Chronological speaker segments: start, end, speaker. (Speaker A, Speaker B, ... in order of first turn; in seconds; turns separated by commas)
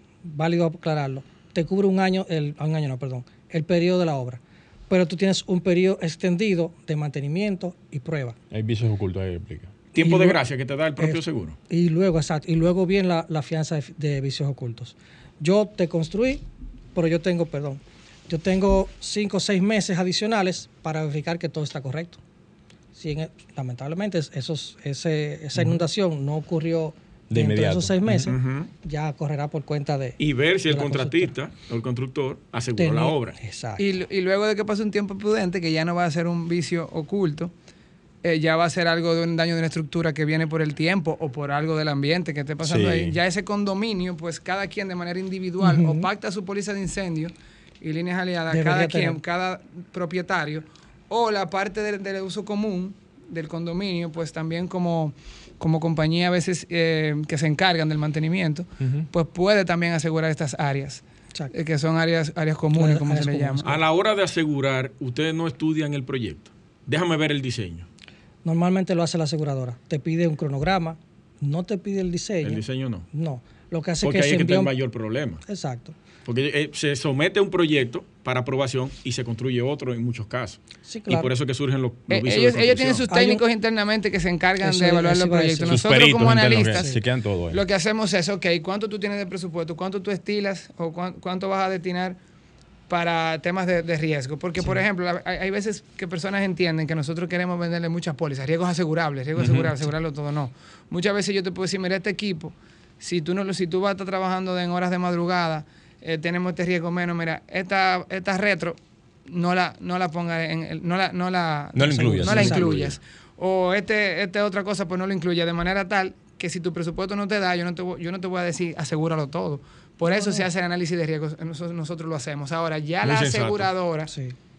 Speaker A: 0.2-8.4, Speaker B: 8.5-9.7, Speaker C: 9.9-11.6, Speaker A: 10.0-10.4, Speaker A: 11.0-16.4, Speaker A: 16.9-22.2, Speaker A: 22.9-31.3, Speaker B: 25.6-25.8, Speaker B: 27.3-28.3, Speaker C: 28.2-28.7, Speaker C: 30.2-33.4, Speaker A: 32.8-33.9, Speaker D: 33.8-37.5, Speaker D: 38.2-63.7, Speaker B: 42.6-43.1, Speaker A: 45.6-46.1, Speaker A: 48.5-49.2, Speaker A: 62.7-63.8, Speaker C: 63.6-67.9, Speaker A: 68.4-74.7, Speaker C: 72.4-73.1, Speaker C: 74.0-75.4, Speaker A: 75.4-76.0, Speaker C: 76.2-83.1, Speaker A: 80.8-81.3, Speaker D: 82.1-86.9, Speaker A: 83.1-83.4, Speaker A: 84.6-86.1, Speaker B: 85.7-87.6, Speaker A: 86.7-87.0, Speaker D: 87.5-92.2, Speaker D: 92.9-124.1, Speaker B: 111.7-113.0, Speaker A: 111.8-112.9, Speaker A: 120.1-120.5, Speaker C: 123.0-123.7, Speaker A: 124.1-124.4